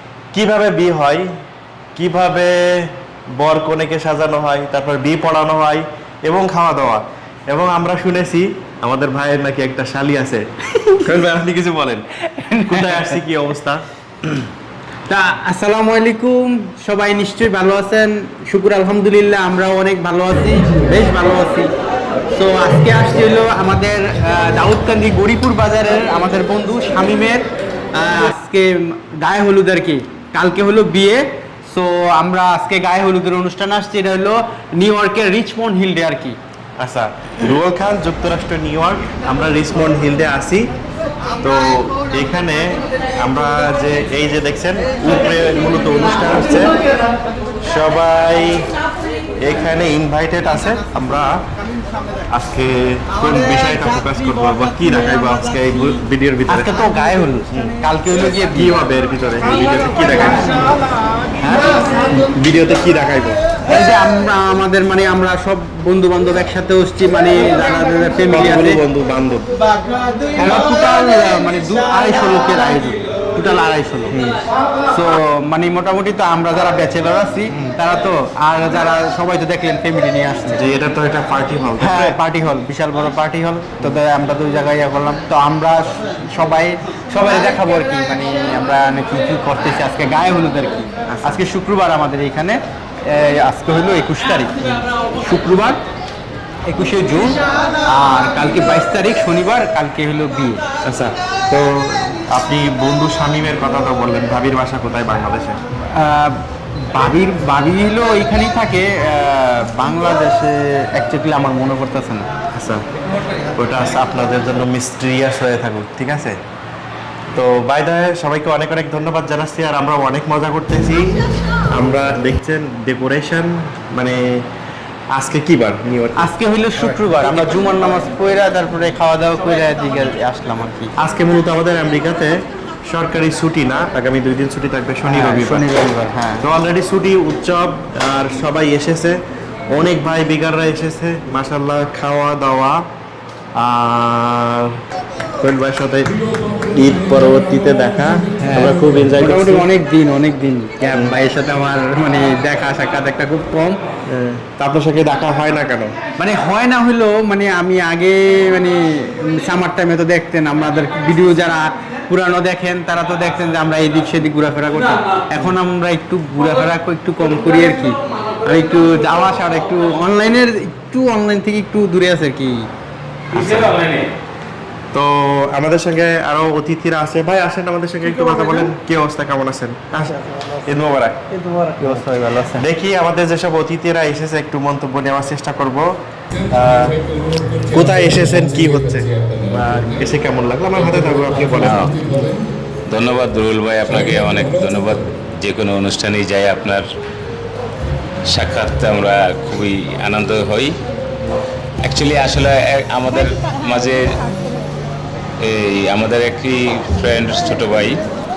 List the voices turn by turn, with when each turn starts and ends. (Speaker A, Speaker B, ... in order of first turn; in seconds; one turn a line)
Speaker A: 0.3-1.2
Speaker A: 1.9-10.4
Speaker A: 11.0-12.0
Speaker B: 12.4-13.2
Speaker A: 12.7-13.8
Speaker B: 15.1-21.7
Speaker B: 22.3-27.4
Speaker B: 28.0-36.4
Speaker A: 36.8-40.7
Speaker A: 41.4-46.7
Speaker A: 47.6-48.7
Speaker A: 49.4-51.4
Speaker A: 52.3-56.8
Speaker B: 56.5-58.8
Speaker A: 58.5-60.5
Speaker A: 62.2-63.4
Speaker B: 63.7-68.8
Speaker A: 68.3-69.5
Speaker B: 70.4-74.2
Speaker B: 74.9-80.6
Speaker A: 80.5-82.2
Speaker B: 81.8-95.8
Speaker A: 91.1-91.4
Speaker B: 96.7-100.6
Speaker A: 100.8-105.6
Speaker B: 106.0-106.4
Speaker B: 106.9-112.3
Speaker A: 112.6-112.8
Speaker A: 113.6-116.3
Speaker A: 117.3-121.2
Speaker A: 121.7-124.4
Speaker A: 125.1-126.2
Speaker B: 126.2-130.9
Speaker A: 131.0-135.7
Speaker B: 135.0-136.5
Speaker A: 136.4-139.2
Speaker A: 139.7-142.8
Speaker A: 143.6-144.8
Speaker A: 145.4-146.1
Speaker A: 146.7-149.7
Speaker B: 148.5-153.8
Speaker A: 154.1-155.9
Speaker B: 156.2-172.7
Speaker A: 173.3-173.8
Speaker A: 174.9-181.2
Speaker B: 181.5-182.7
Speaker A: 182.6-185.9
Speaker A: 186.5-191.9
Speaker C: 191.6-192.0
Speaker C: 192.9-196.8
Speaker C: 198.3-200.7
Speaker C: 201.8-204.2
Speaker C: 205.4-208.0